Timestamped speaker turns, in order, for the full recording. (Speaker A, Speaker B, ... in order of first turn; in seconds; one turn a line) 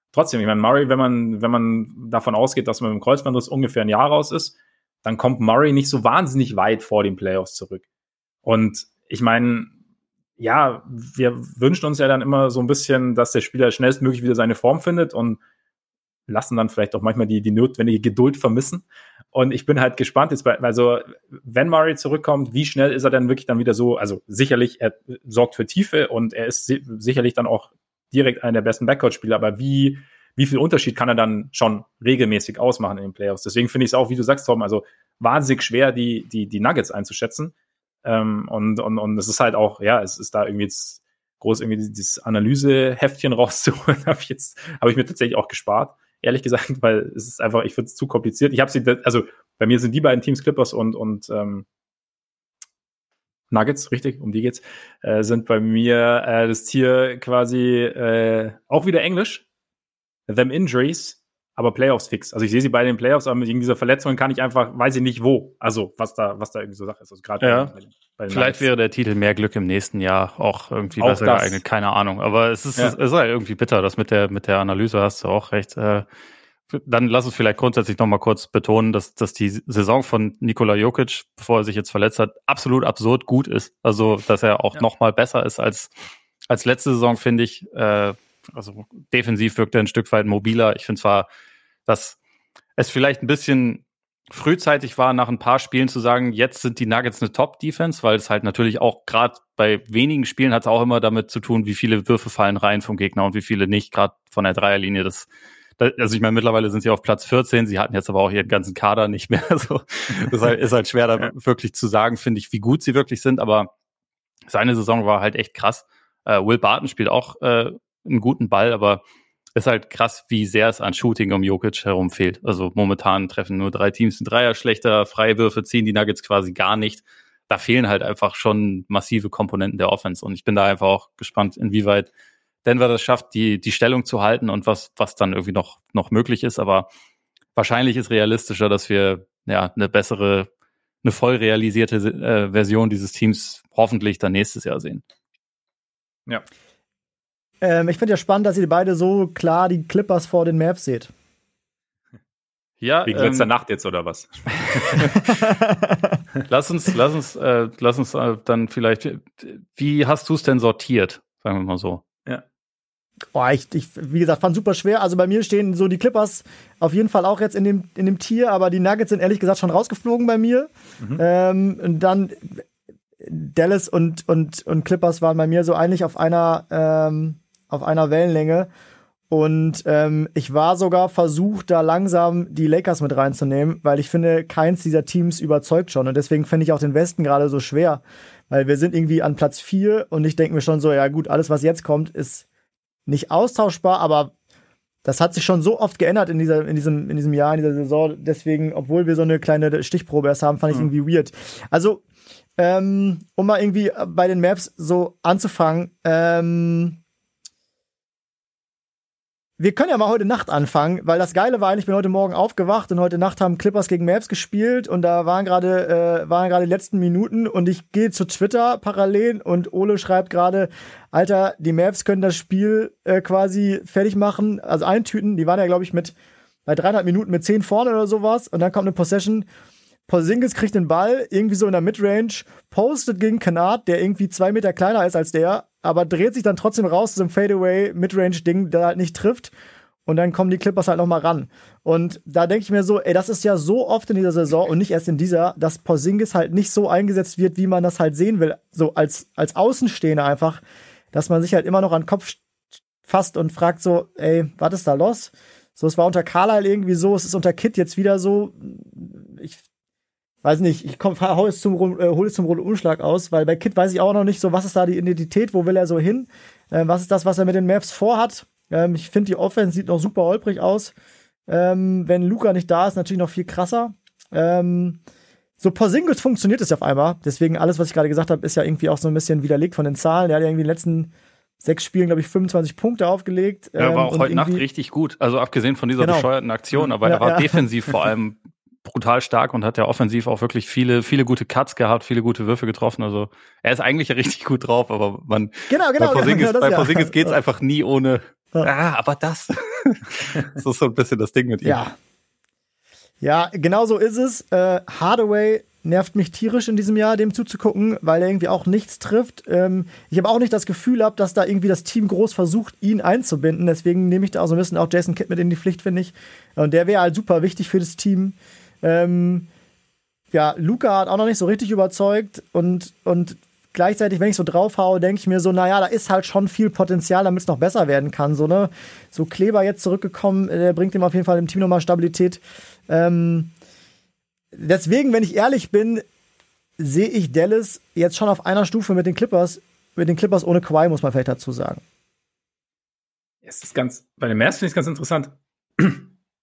Speaker A: 0.1-7.8
Speaker A: 8.4-9.7
Speaker A: 10.4-15.4
Speaker A: 16.3-51.6
Speaker A: 53.5-59.5
Speaker A: 60.3-68.7
Speaker B: 67.4-67.7
Speaker B: 68.3-76.0
Speaker A: 71.0-71.6
Speaker B: 76.7-85.9
Speaker B: 86.5-91.3
Speaker B: 91.9-92.2
Speaker B: 92.8-113.7
Speaker B: 114.5-119.0
Speaker B: 119.6-132.1
Speaker B: 132.7-136.9
Speaker B: 137.6-140.5
Speaker B: 141.0-145.0
Speaker C: 147.6-151.1
Speaker B: 152.8-153.5
Speaker A: 153.1-155.2
Speaker B: 154.8-155.2
Speaker C: 155.3-156.2
Speaker B: 156.5-162.0
Speaker C: 163.3-172.6
Speaker C: 173.2-178.7
Speaker C: 179.3-192.4
Speaker C: 193.1-194.3
Speaker C: 195.1-202.0
Speaker C: 202.6-207.0
Speaker C: 209.6-226.1
Speaker C: 226.7-229.5
Speaker C: 230.1-239.5
Speaker C: 240.1-250.6
Speaker C: 251.1-252.4
Speaker C: 253.1-259.6
Speaker C: 260.4-270.9
Speaker C: 271.5-275.0
Speaker C: 275.6-284.6
Speaker B: 283.8-301.8
Speaker C: 286.0-286.3
Speaker C: 287.0-287.6
Speaker C: 295.7-297.4
Speaker C: 301.6-301.9
Speaker C: 303.2-319.5
Speaker C: 320.3-333.5
Speaker C: 334.5-336.0
Speaker C: 336.8-341.8
Speaker A: 343.4-346.1